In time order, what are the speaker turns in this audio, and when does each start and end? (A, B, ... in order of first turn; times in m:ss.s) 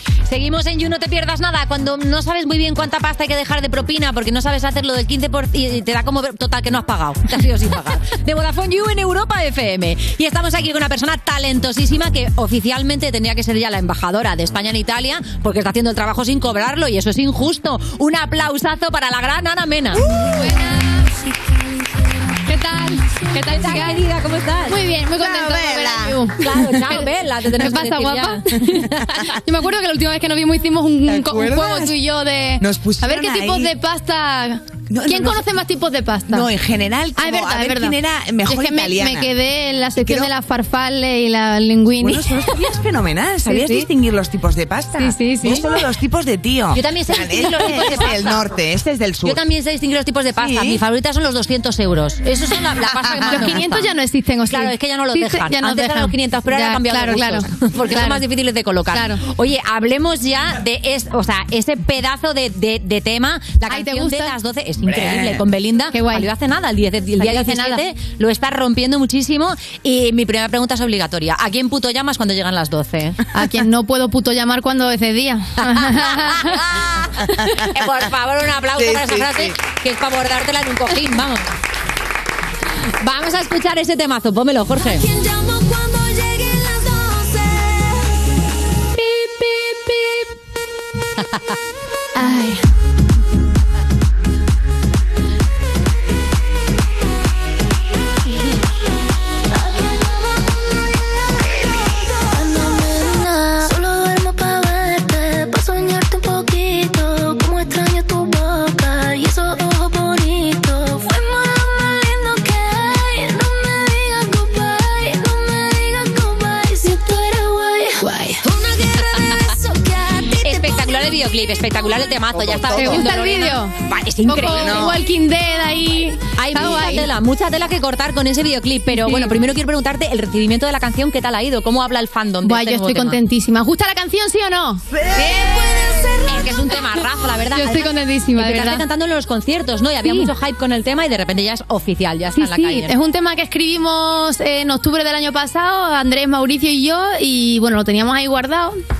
0:00.3-0:20.0 A
0:20.0-0:21.1 B
0:22.4-0:24.0 B
0:23.3-0:24.8 A
0:24.7-0:36.5 B
0:25.2-0:26.2 C
0:26.4-0:29.2 A
0:31.1-0:31.9 C
0:32.6-0:33.7 C
0:34.9-0:35.4 C
0:36.3-0:39.3 C
0:37.2-0:42.3 B
0:40.0-0:40.3 C
0:42.0-0:49.4 C
0:43.4-0:43.9 B
0:45.0-0:45.7 B
0:46.7-0:48.4 A
0:49.2-0:53.9 A
0:50.4-0:50.8 C
0:53.3-0:58.2 B
0:54.5-1:13.2 A
0:58.9-0:59.2 B
1:03.7-1:04.3 B
1:04.8-1:05.4 C
1:05.9-1:06.3 B
1:07.2-1:07.8 B
1:13.3-1:16.7 B
1:15.6-1:21.5 A
1:18.8-1:19.6 C
1:23.0-1:25.0 A
1:24.8-1:28.1 D
1:29.0-1:30.2 D
1:32.2-1:32.6 D
1:39.5-2:02.0 D
2:00.4-2:05.0 A
2:02.3-2:03.1 C
2:02.8-2:07.1 B
2:04.5-2:05.0 C
2:06.4-2:13.2 A
2:08.9-2:09.4 B
2:12.4-2:15.6 B
2:15.4-2:16.4 D
2:16.3-2:22.9 A
2:17.5-2:18.8 B
2:20.0-2:20.3 B
2:22.4-2:28.8 B